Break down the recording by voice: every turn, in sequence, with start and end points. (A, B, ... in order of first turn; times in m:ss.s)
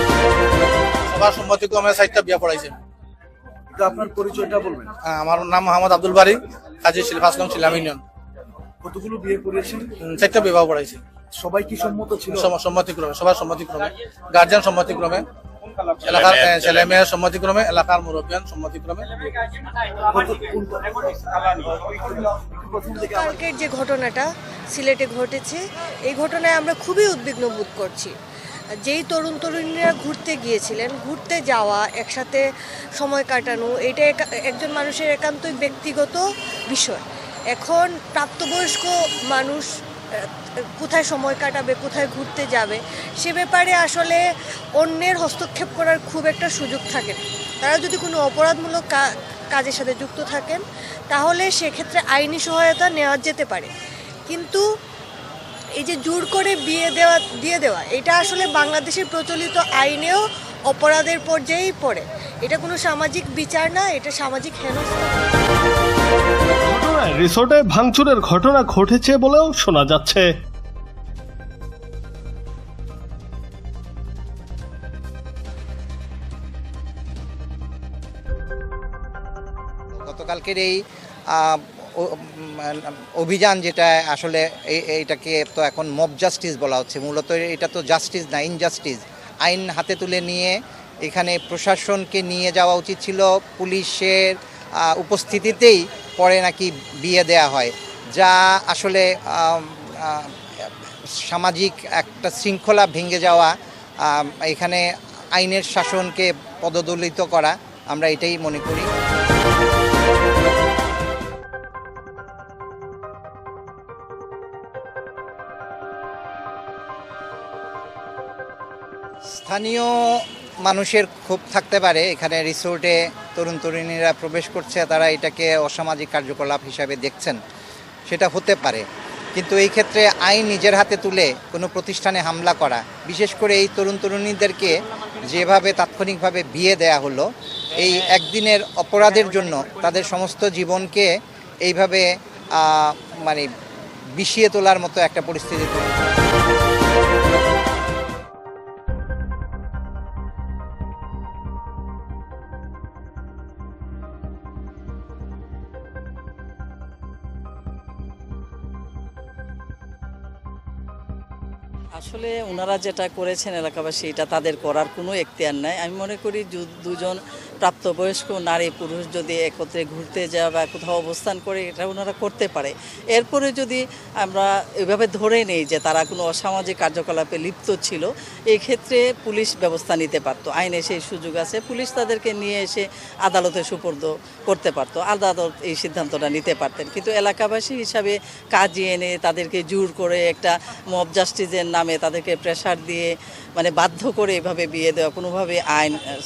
0:01.1-0:02.8 A
0:03.8-0:05.0 B
0:05.0-0:08.0 A
0:08.8-0:10.0 B
0:10.0-0:11.0 A
0:11.4-0:12.4 B
0:12.3-0:15.2 A
0:16.0-0:19.1 A
0:20.1-0:20.9 B
0:21.6-0:23.4 B
0:23.0-0:28.1 C
0:28.8-0:32.4 C
0:33.0-0:44.2 C
0:44.8-0:53.7 C
0:54.3-0:54.6 C
0:55.8-1:05.2 C
1:06.7-1:10.3 D
1:19.9-1:40.7 E
1:41.3-1:48.9 E
1:59.4-2:07.4 E
2:08.1-2:23.5 E
2:24.2-2:26.0 E
2:42.0-3:16.0 F